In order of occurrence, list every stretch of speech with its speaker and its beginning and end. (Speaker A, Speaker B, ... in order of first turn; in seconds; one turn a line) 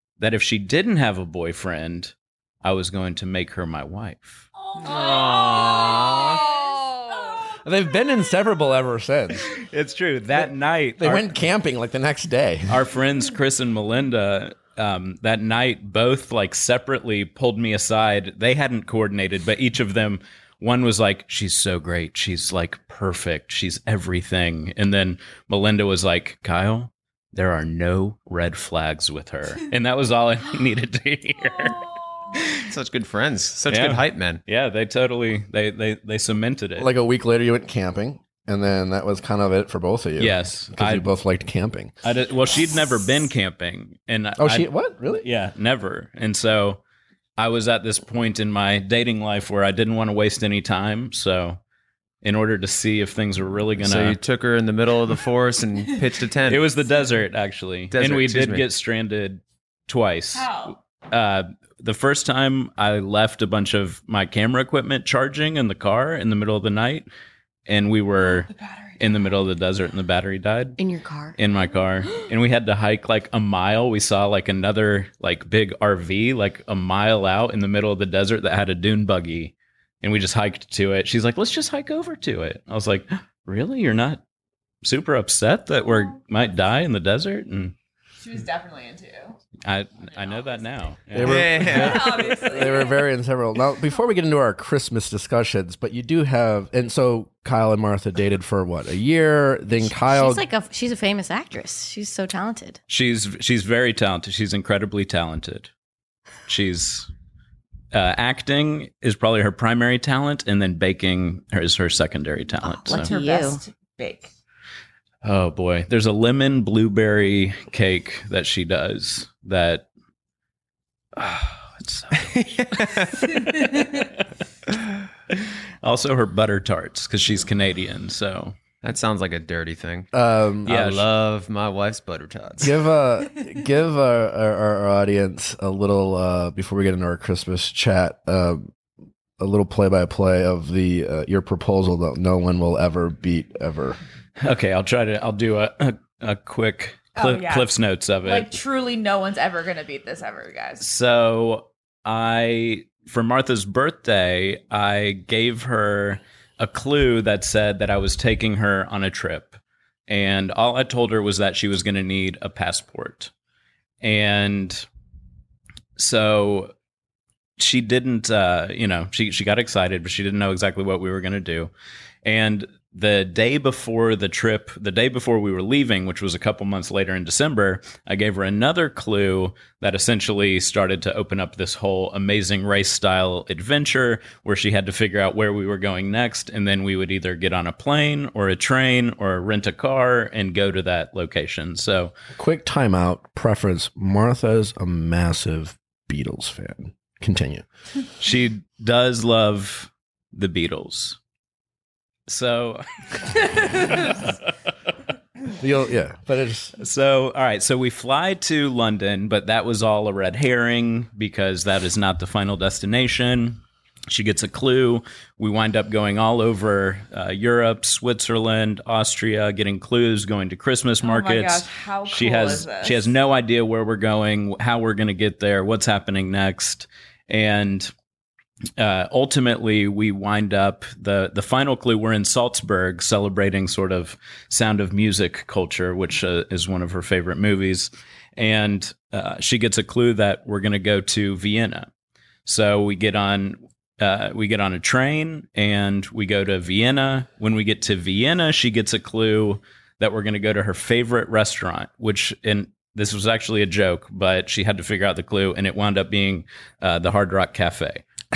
Speaker A: 0.2-4.5
Speaker B: 4.6-7.4
Speaker C: 4.9-6.4
Speaker D: 5.0-7.3
Speaker E: 5.6-6.1
Speaker E: 7.6-9.4
Speaker A: 9.4-11.4
Speaker E: 11.0-12.8
Speaker A: 12.7-32.5
Speaker C: 32.6-34.4
Speaker A: 33.7-36.9
Speaker E: 36.8-41.9
Speaker A: 40.2-41.1
Speaker A: 42.0-46.8
Speaker E: 44.4-45.2
Speaker A: 47.4-51.6
Speaker A: 52.2-54.2
Speaker C: 53.8-56.6
Speaker A: 56.5-67.1
Speaker C: 57.9-58.6
Speaker B: 60.4-60.8
Speaker A: 67.7-70.8
Speaker B: 68.4-69.1
Speaker D: 70.8-71.4
Speaker A: 71.4-84.2
Speaker A: 84.8-87.8
Speaker B: 88.2-89.3
Speaker A: 89.7-91.9
Speaker E: 91.1-100.5
Speaker C: 91.2-92.2
Speaker B: 91.7-93.0
Speaker D: 99.8-102.8
Speaker A: 102.9-105.7
Speaker A: 106.5-107.1
Speaker A: 107.9-113.1
Speaker D: 112.9-113.6
Speaker B: 112.9-114.3
Speaker A: 115.2-119.9
Speaker A: 121.2-124.1
Speaker C: 122.3-123.1
Speaker B: 123.4-124.0
Speaker A: 125.3-128.6
Speaker C: 128.8-130.1
Speaker E: 130.1-130.8
Speaker C: 130.7-132.8
Speaker A: 130.7-131.1
Speaker E: 132.6-138.7
Speaker E: 139.4-144.0
Speaker A: 144.4-148.5
Speaker B: 147.2-147.7
Speaker B: 148.2-150.8
Speaker A: 150.8-159.6
Speaker A: 160.1-163.3
Speaker A: 164.0-164.9
Speaker A: 166.0-166.7
Speaker A: 167.6-171.7
Speaker A: 172.2-192.1
Speaker E: 192.4-197.7
Speaker A: 198.2-201.2
Speaker A: 202.3-204.3
Speaker E: 205.6-206.7
Speaker A: 206.8-227.9
Speaker B: 221.0-223.1
Speaker A: 228.8-241.9
Speaker A: 242.4-258.1